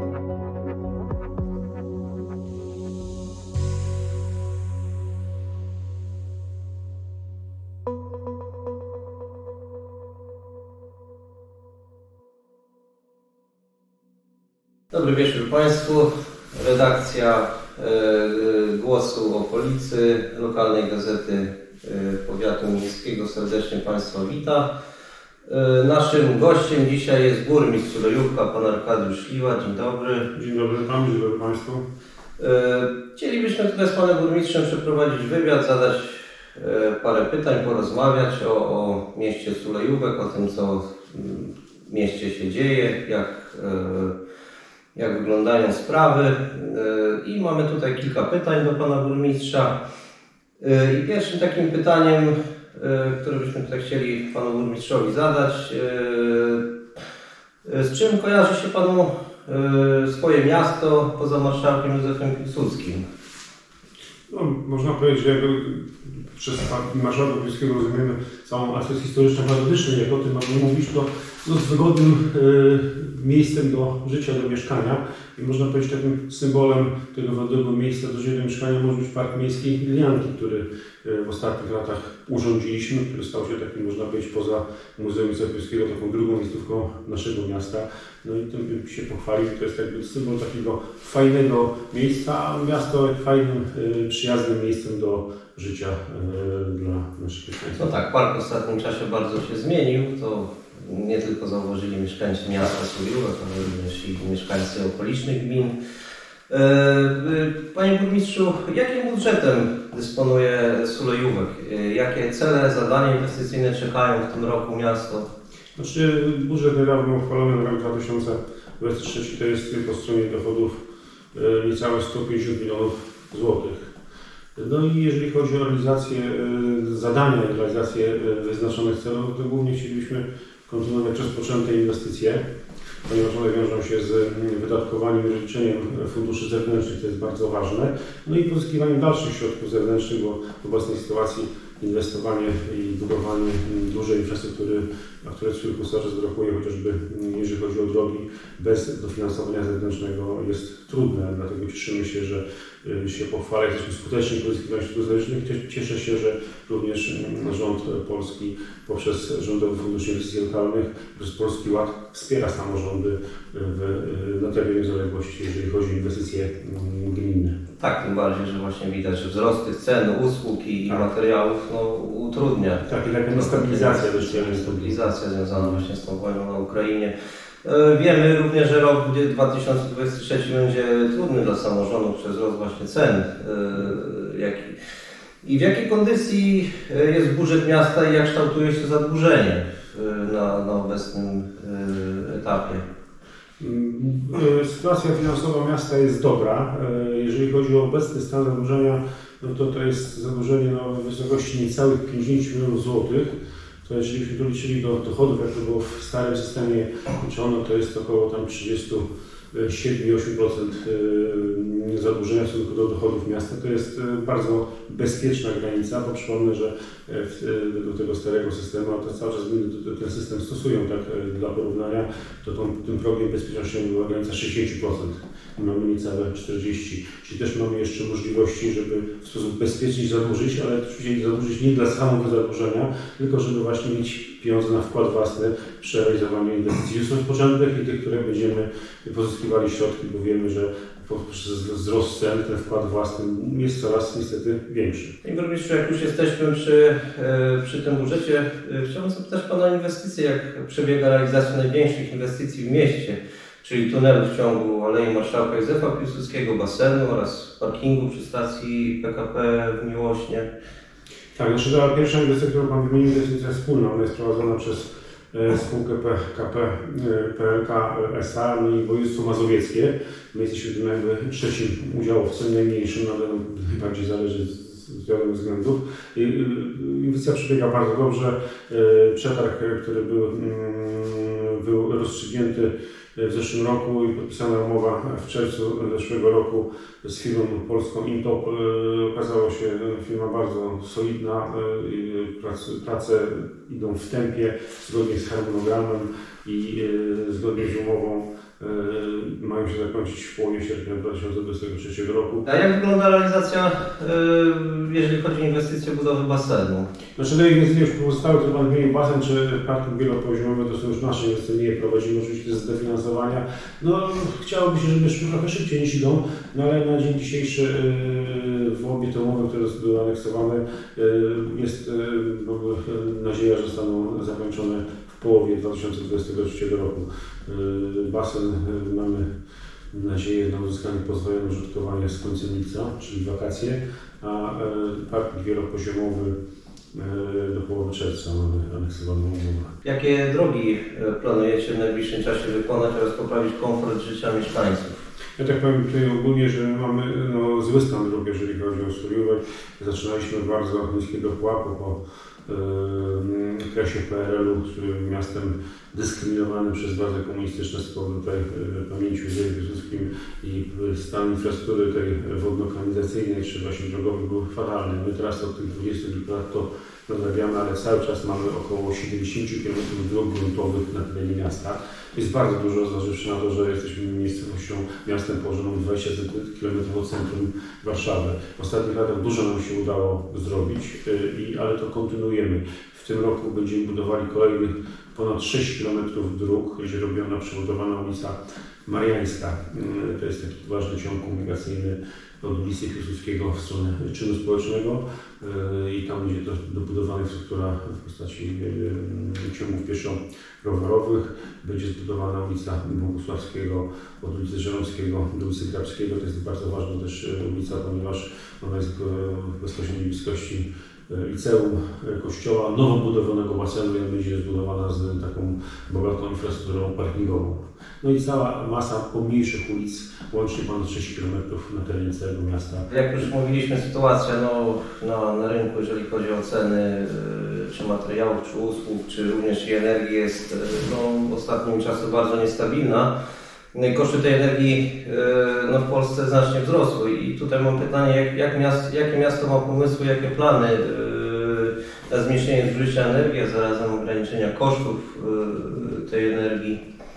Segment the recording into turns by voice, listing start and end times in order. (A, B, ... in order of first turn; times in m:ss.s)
0:14.9-0:24.7 A
0:25.4-0:30.3 A
0:30.3-0:31.8 B
0:32.4-0:44.1 A
0:44.9-0:49.8 A
0:50.6-0:56.6 A
0:57.6-1:03.0 A
1:04.3-1:37.9 B
1:37.7-1:45.7 A
1:46.5-1:55.3 A
1:55.8-2:00.8 B
2:01.3-2:03.9 B
2:04.5-2:12.4 B
2:13.0-2:47.6 B
2:47.8-2:57.1 A
2:52.8-2:55.8 B
2:57.6-3:04.7 A
3:05.4-3:12.8 A
3:13.6-3:23.3 B
3:23.8-4:05.2 B
4:05.2-4:20.5 A
4:21.3-5:02.4 B
5:02.4-5:06.9 A
5:07.2-5:29.3 B
5:29.9-5:36.4 B
5:36.9-5:39.7 B
5:39.8-5:45.0 A
5:45.4-7:02.9 B
7:02.9-7:13.1 A
7:13.7-7:26.8 A